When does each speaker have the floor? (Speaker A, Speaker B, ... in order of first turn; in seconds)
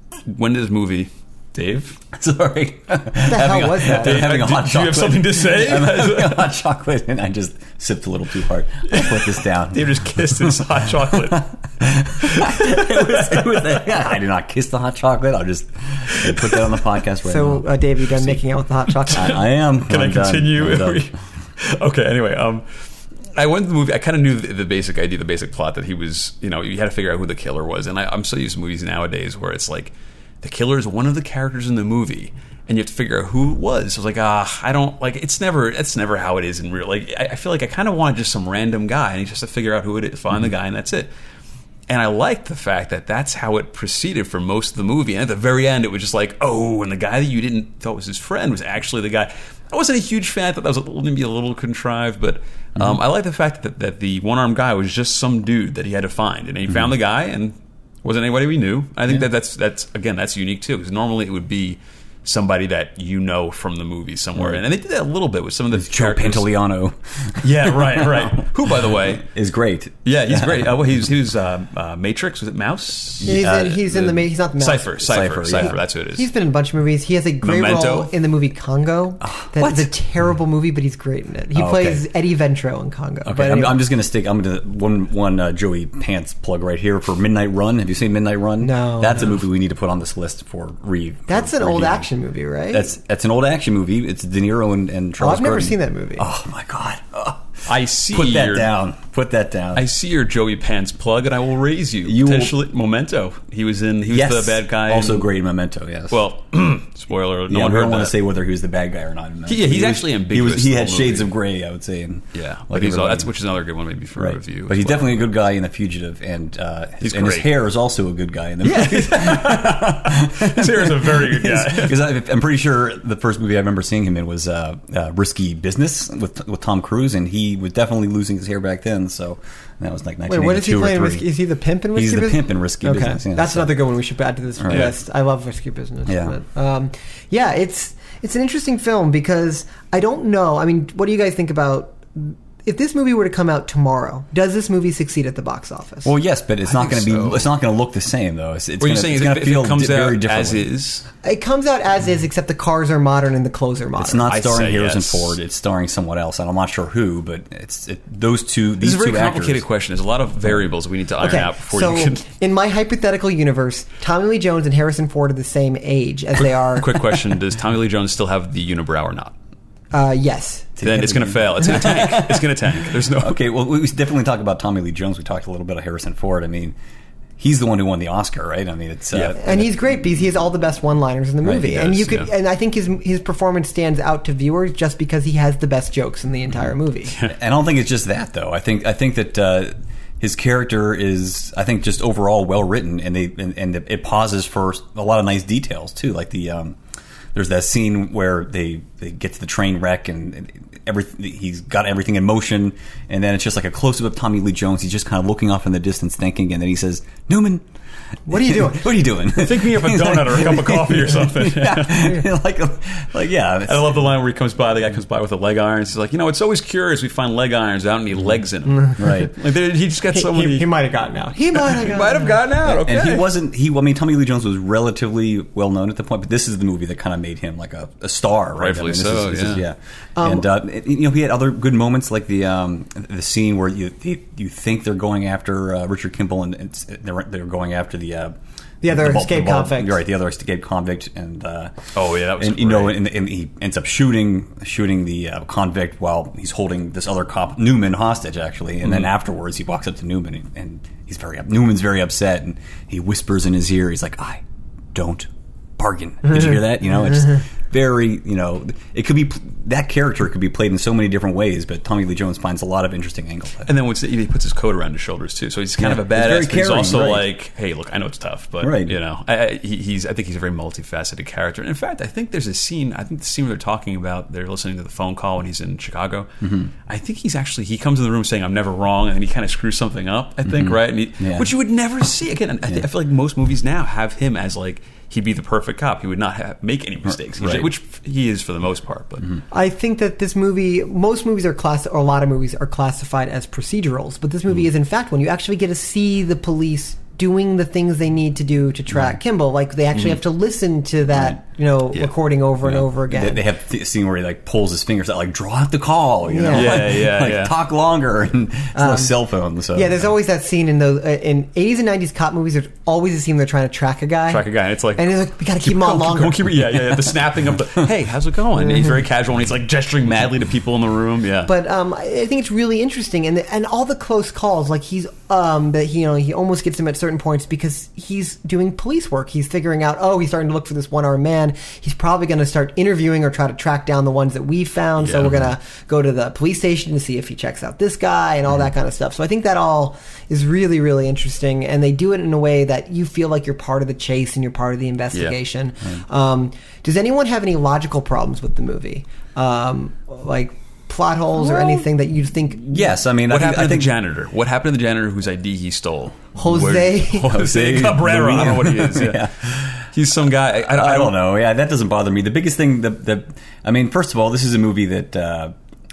Speaker A: 0.3-2.0, 3.8-6.5, 8.9-11.5, 12.2-13.8, 19.2-22.6, 23.3-41.1, 41.9-66.5, 67.4-69.2, 70.0-76.3, 77.4-78.1, 97.7-98.7, 99.7-105.3, 106.1-108.2, 109.5-111.3, 112.3-115.2, 117.0-117.5, 118.6-122.0, 146.7-147.5, 148.8-151.1, 154.3-155.3, 158.8-162.2, 166.6-169.3, 170.8-173.4, 179.1-179.4, 181.6-182.3, 209.3-212.2, 213.7-220.7, 221.5-223.3, 228.6-229.6, 241.9-243.0, 263.7-276.3, 276.9-289.4, 306.5-307.5, 314.3-321.5, 335.0-335.4, 353.3-359.3, 359.9-361.2
Speaker B: 2.1-10.5, 11.1-17.7, 19.1-21.1, 65.7-68.5, 69.0-70.7, 73.2-73.8, 75.0-75.8, 79.2-79.9, 81.5-82.0, 83.2-92.1, 92.7-97.5, 98.1-99.8, 102.0-102.5, 104.1-106.2, 107.5-113.3, 114.2-131.2, 131.9-133.7, 134.6-134.9, 136.1-136.3, 146.0-150.7, 154.0-159.6, 170.8-176.7, 177.4-179.7, 187.3-196.8, 197.3-207.6, 208.3-214.0, 219.0-219.3, 222.6-241.7, 242.4-254.4, 254.9-263.7, 265.8-267.3, 268.6-269.0, 276.4-276.7, 280.4-281.5, 287.4-287.7, 302.6-310.1, 352.6-353.9, 357.3-359.9, 360.6-365.5
Speaker C: 3.2-4.3, 17.2-19.4, 73.2-83.8, 88.6-89.3, 91.3-92.9, 95.2-96.2, 130.3-146.1, 151.2-154.3, 161.2-167.1, 169.9-170.8, 179.3-187.1, 208.3-208.9, 220.1-222.4, 230.2-230.5, 238.8-240.0, 289.5-303.4, 306.3-306.8, 308.7-309.1, 309.7-316.5, 321.4-352.8, 356.4-357.3